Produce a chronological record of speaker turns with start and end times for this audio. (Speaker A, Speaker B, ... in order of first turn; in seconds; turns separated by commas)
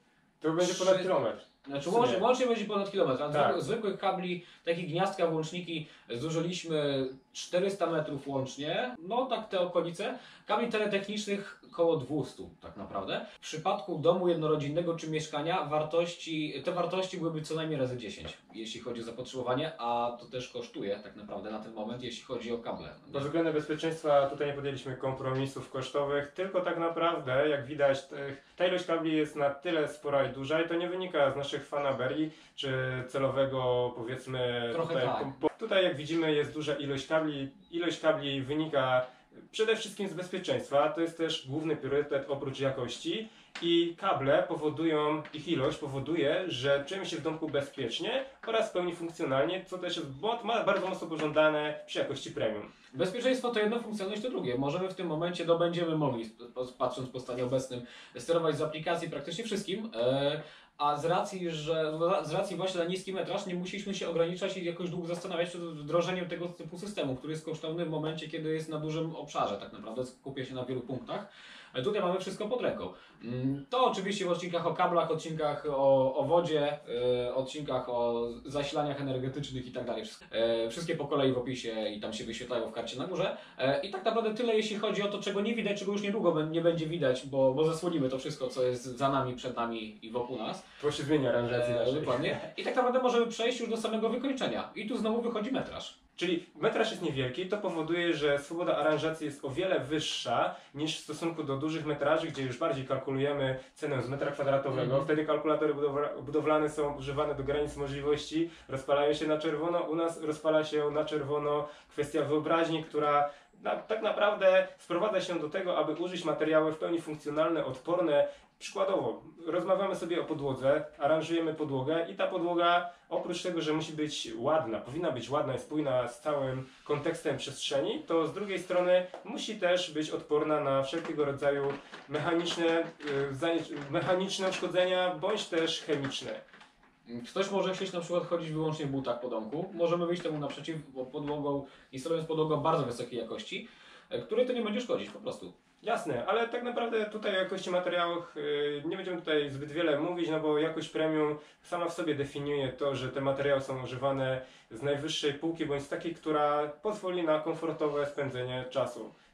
Speaker A: 0.4-2.2, Speaker B: 0.6-23.3, Speaker A: 3.3-3.6, Speaker A: 23.1-52.7, Speaker B: 34.7-35.4, Speaker B: 52.9-90.7, Speaker A: 90.8-92.4, Speaker B: 91.5-95.9, Speaker A: 96.2-136.4, Speaker B: 104.7-105.1, Speaker B: 137.1-145.5, Speaker A: 145.8-159.1